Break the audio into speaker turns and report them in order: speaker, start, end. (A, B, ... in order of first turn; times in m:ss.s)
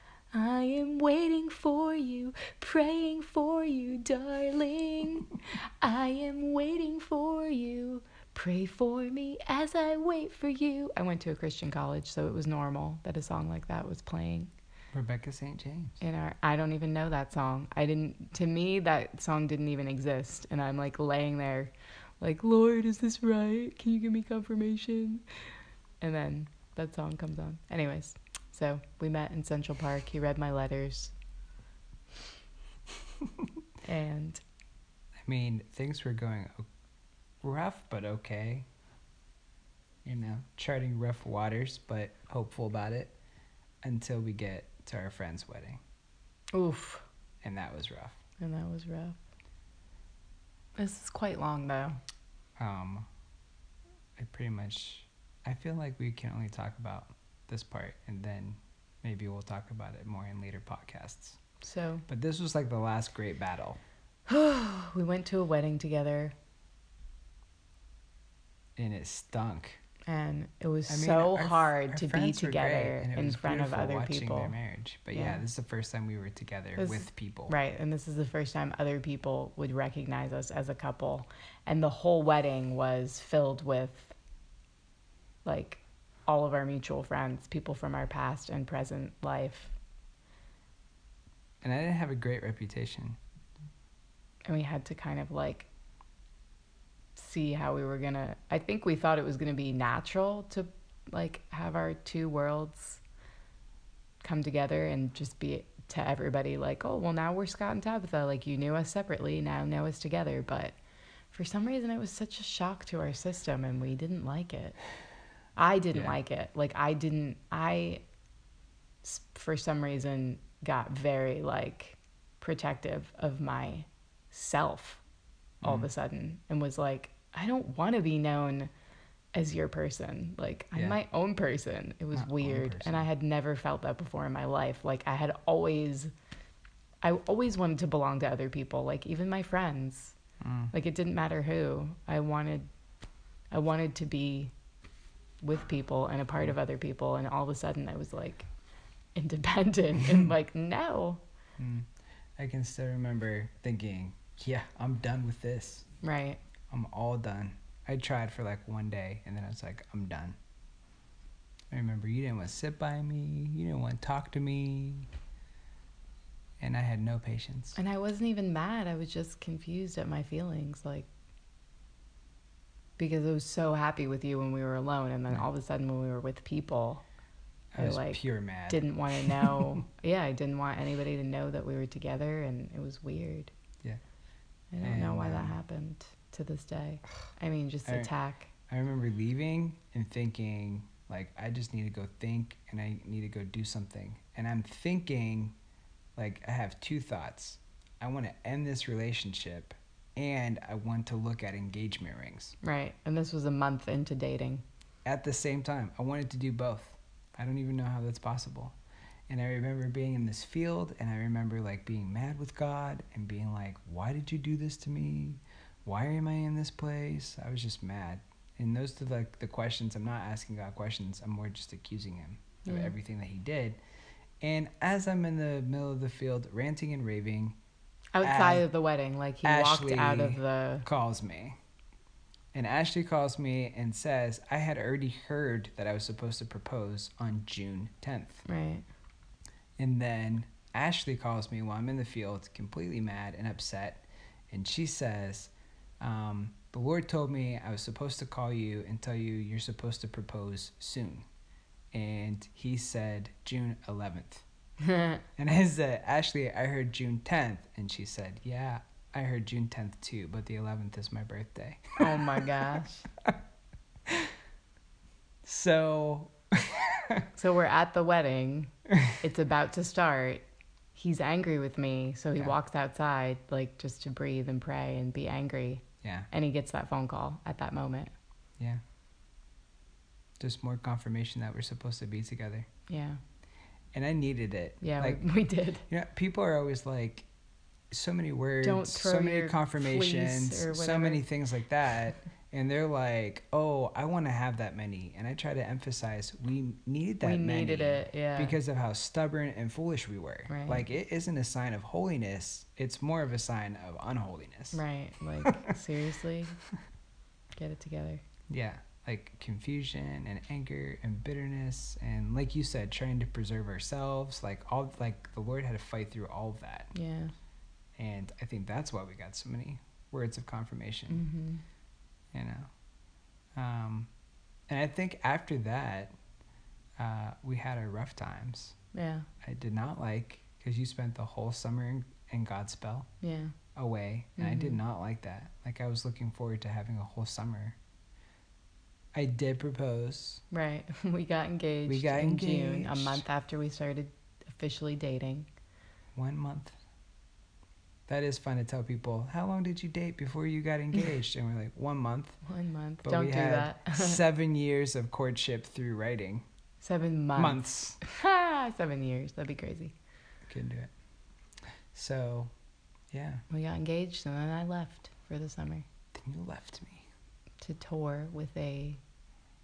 0:00.3-0:14.5 A
0:14.9-0:16.0 B
0:16.0-0:25.2 A
0:26.0-0:31.1 A
0:33.8-0:34.4 A
0:35.2-0:36.7 B
0:37.4-0:38.7 B
0:40.0-0:43.2 B
0:43.8-0:45.8 B
0:46.5-0:47.0 A
0:47.4-0:48.2 B
0:48.4-0:49.2 A
0:50.8-0:52.0 A
0:52.6-0:53.1 B
0:54.2-1:01.4 B
1:01.6-1:02.0 A
1:02.1-1:03.8 B
1:04.3-1:06.3 A
1:08.8-1:09.8 B
1:10.1-1:14.6 A
1:10.9-1:17.5 B
1:15.1-1:15.4 A
1:16.8-1:24.1 A
1:25.4-1:29.7 A
1:31.6-1:33.2 B
1:34.5-1:35.7 A
1:37.2-1:43.0 A
1:44.2-1:50.7 A
1:51.3-1:54.8 A
1:55.6-1:58.0 A
1:59.0-2:05.0 A
2:05.6-2:08.7 A
2:05.6-2:05.9 B
2:09.3-2:16.1 A
2:12.1-2:13.1 B
2:17.0-2:20.2 A
2:20.4-2:20.7 B
2:20.7-2:22.7 A
2:23.5-2:24.5 A
2:25.4-2:28.5 A
2:29.2-2:31.2 A
2:31.6-2:35.9 B
2:36.0-2:36.4 A
2:36.7-2:40.4 B
2:41.7-2:45.1 B
2:46.6-2:47.8 B
2:47.8-2:51.1 A
2:53.0-2:57.0 A
2:57.7-2:59.8 B
2:57.8-3:03.5 A
3:04.7-3:08.5 A
3:04.8-3:05.6 B
3:07.9-3:08.1 B
3:08.7-3:15.6 B
3:16.2-3:22.6 B
3:22.6-3:24.6 A
3:25.0-3:28.8 B
3:29.3-3:43.8 B
3:42.7-3:42.9 A
3:44.4-3:47.6 B
3:48.2-3:50.9 A
3:48.2-3:48.6 B
3:49.4-3:51.6 B
3:52.5-3:58.4 B
3:58.4-3:58.8 A
3:59.8-4:11.3 B
4:11.9-4:14.4 B
4:14.8-4:15.2 A
4:15.4-4:22.5 B
4:22.0-4:23.1 A
4:24.1-4:24.3 B
4:25.4-4:27.3 B
4:27.4-4:30.4 A
4:28.9-4:29.2 B
4:31.0-4:38.1 A
4:36.0-4:36.3 B
4:40.4-4:42.7 B
4:42.9-4:43.2 A
4:43.9-4:45.2 B
4:44.8-4:45.8 A
4:45.9-4:47.3 B
4:47.9-5:04.8 B
4:48.6-4:51.2 A
4:57.2-4:58.6 A
5:00.5-5:00.8 A
5:04.7-5:06.6 A
5:07.6-5:08.2 A
5:08.5-5:16.9 B
5:16.9-5:17.3 A
5:18.0-5:21.2 B
5:21.1-5:21.6 A
5:22.3-5:22.7 B
5:23.6-5:24.1 B
5:24.7-5:26.1 B
5:27.0-5:28.8 B
5:28.9-5:29.3 A
5:29.4-5:33.1 B
5:33.2-5:33.6 A
5:33.8-5:37.8 B
5:34.4-5:34.8 A
5:39.1-5:40.4 B
5:40.5-5:45.5 A
5:41.9-5:43.2 B
5:46.2-5:46.8 B
5:48.1-5:52.4 B
5:52.4-5:54.2 A
5:53.0-5:56.4 B
5:56.8-5:59.9 A
5:57.4-5:58.0 B
6:00.5-6:00.9 B
6:01.6-6:02.5 B
6:03.1-6:03.4 B
6:03.5-6:05.9 A
6:06.1-6:07.1 B
6:07.6-6:09.0 A